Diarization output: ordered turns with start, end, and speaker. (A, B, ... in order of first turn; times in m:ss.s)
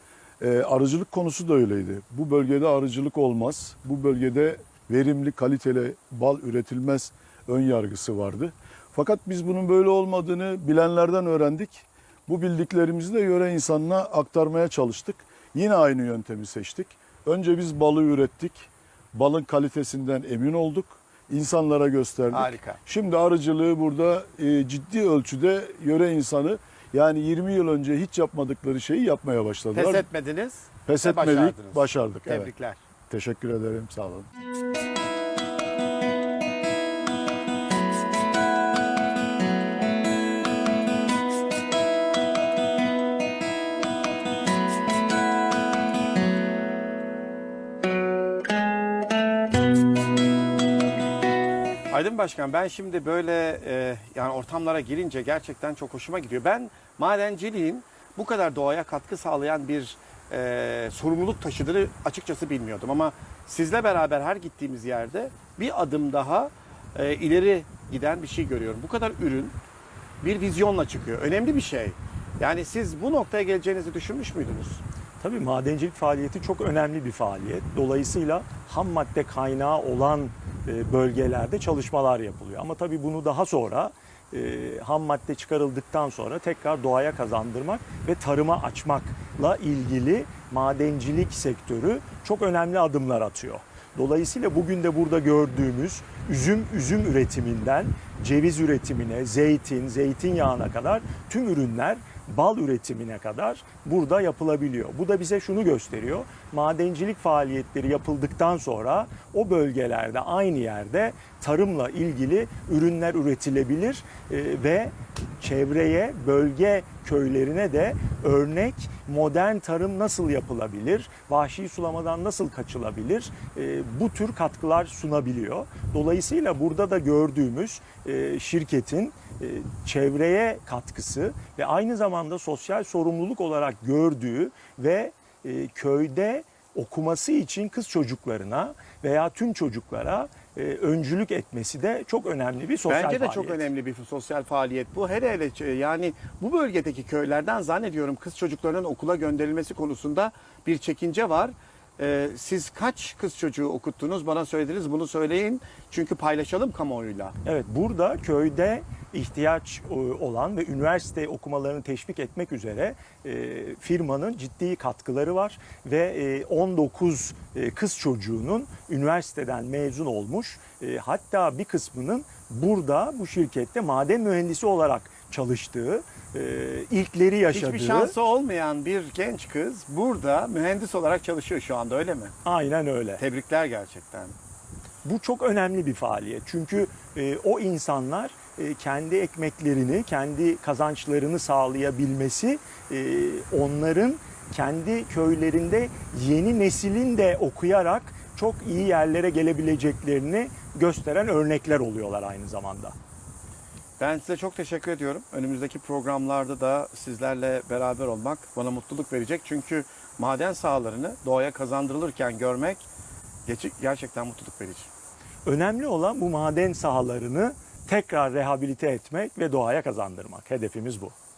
0:00.4-0:30.1 A
0:22.3-0:22.8 B
0:29.7-0:32.8 B
0:30.9-0:32.5 A
0:33.1-0:34.3 A
0:51.9-1:09.6 B
1:10.2-1:14.8 B
1:15.2-2:23.7 C
2:22.9-2:37.4 B
2:37.4-2:58.1 C
2:57.5-3:02.3 B
3:02.4-3:03.2 C
3:03.2-3:04.4 B
3:05.0-3:23.0 C
3:24.0-3:32.9 B
3:33.5-3:34.9 B
3:35.4-3:41.2 C